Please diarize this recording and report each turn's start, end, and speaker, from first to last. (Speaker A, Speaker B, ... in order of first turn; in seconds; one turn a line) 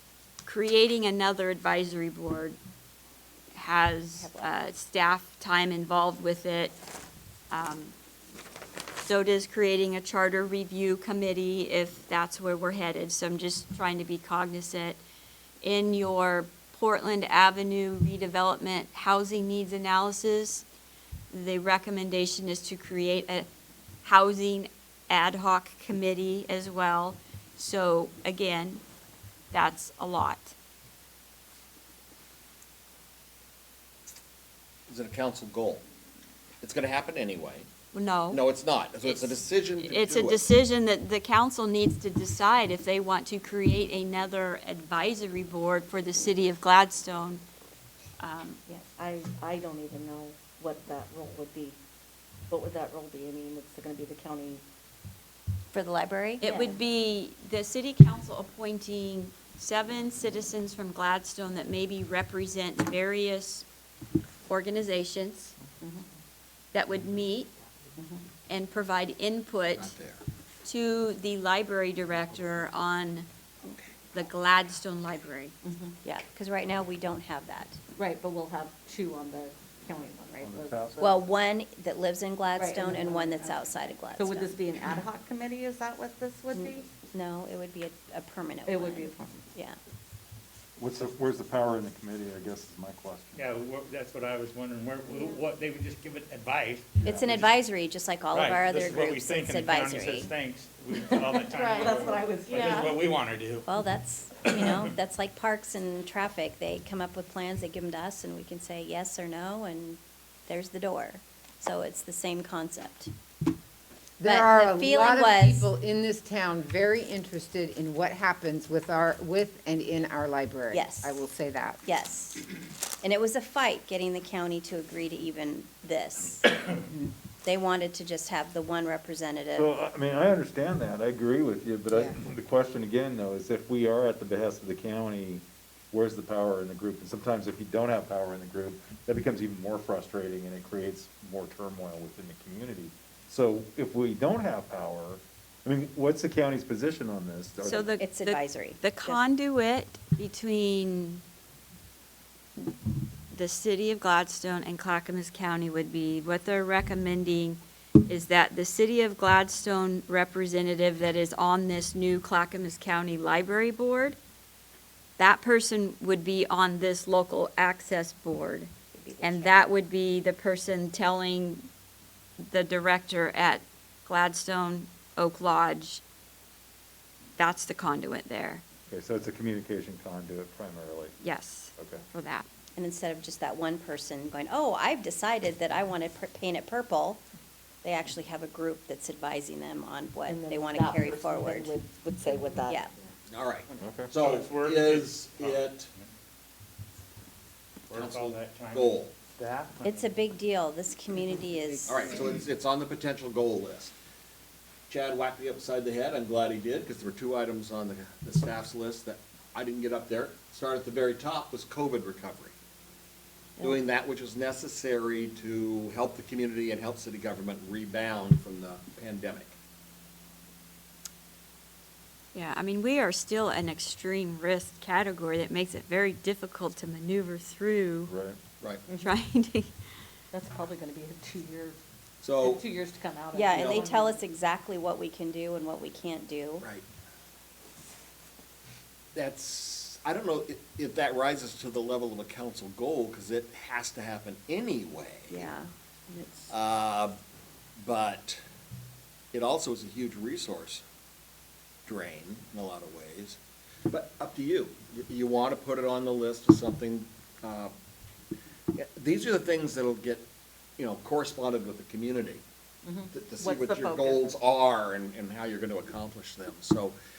Speaker A: 0.4-2.6
Speaker A: 3.5-6.8
Speaker B: 4.1-4.5
Speaker A: 7.5-7.9
Speaker A: 9.0-15.0
Speaker A: 15.6-20.6
Speaker A: 21.3-23.5
Speaker A: 24.0-28.8
Speaker A: 29.5-30.5
Speaker C: 34.9-35.8
Speaker C: 36.6-37.7
Speaker A: 37.9-38.4
Speaker C: 38.3-40.5
Speaker A: 39.0-47.4
Speaker A: 48.2-48.6
Speaker D: 48.8-51.8
Speaker D: 52.5-54.6
Speaker B: 55.7-56.8
Speaker A: 56.4-63.7
Speaker A: 64.5-65.5
Speaker A: 66.7-67.5
Speaker A: 68.5-69.9
Speaker C: 69.7-70.2
Speaker A: 70.6-73.3
Speaker C: 73.6-73.9
Speaker A: 74.1-75.5
Speaker D: 75.6-76.0
Speaker B: 76.0-77.8
Speaker D: 78.0-81.3
Speaker E: 80.4-81.0
Speaker B: 81.0-84.5
Speaker D: 82.5-86.9
Speaker B: 86.5-89.8
Speaker D: 88.7-89.4
Speaker E: 90.8-93.4
Speaker F: 93.3-97.0
Speaker B: 97.0-100.3
Speaker E: 97.0-97.5
Speaker F: 98.3-103.7
Speaker D: 101.0-103.0
Speaker B: 103.7-113.1
Speaker F: 104.6-104.9
Speaker G: 114.2-121.8
Speaker B: 114.2-115.7
Speaker B: 120.7-121.2
Speaker B: 121.8-122.4
Speaker B: 123.0-126.7
Speaker G: 126.7-126.9
Speaker B: 127.4-129.7
Speaker E: 129.5-147.9
Speaker A: 147.6-151.2
Speaker B: 147.7-149.2
Speaker A: 153.3-164.2
Speaker A: 165.2-171.7
Speaker B: 169.0-169.5
Speaker D: 169.0-169.3
Speaker A: 172.4-176.0
Speaker A: 177.4-178.6
Speaker E: 178.9-181.2
Speaker A: 181.2-182.4
Speaker E: 181.8-182.0
Speaker B: 182.8-187.2
Speaker B: 187.8-191.7
Speaker D: 190.3-192.9
Speaker B: 192.6-192.9
Speaker C: 193.3-195.9
Speaker E: 193.8-194.1
Speaker F: 194.1-196.1
Speaker F: 197.9-200.1
Speaker C: 197.9-199.1
Speaker B: 199.8-202.4
Speaker D: 201.1-201.9
Speaker C: 201.8-203.9
Speaker C: 204.9-212.5
Speaker C: 213.6-219.6
Speaker A: 222.3-228.1
Speaker E: 228.1-228.4
Speaker D: 228.9-229.1
Speaker A: 229.0-229.7
Speaker D: 230.3-231.8
Speaker C: 232.2-232.6
Speaker D: 232.4-234.2
Speaker B: 233.3-236.7
Speaker C: 233.5-233.9
Speaker C: 239.1-245.5
Speaker B: 245.3-246.3
Speaker D: 246.2-246.5
Speaker C: 246.5-247.2
Speaker C: 247.8-248.4
Speaker C: 249.3-250.8
Speaker C: 251.8-253.4
Speaker C: 253.9-257.7
Speaker C: 258.7-260.3
Speaker C: 260.8-262.4
Speaker D: 262.8-264.4
Speaker C: 263.1-267.0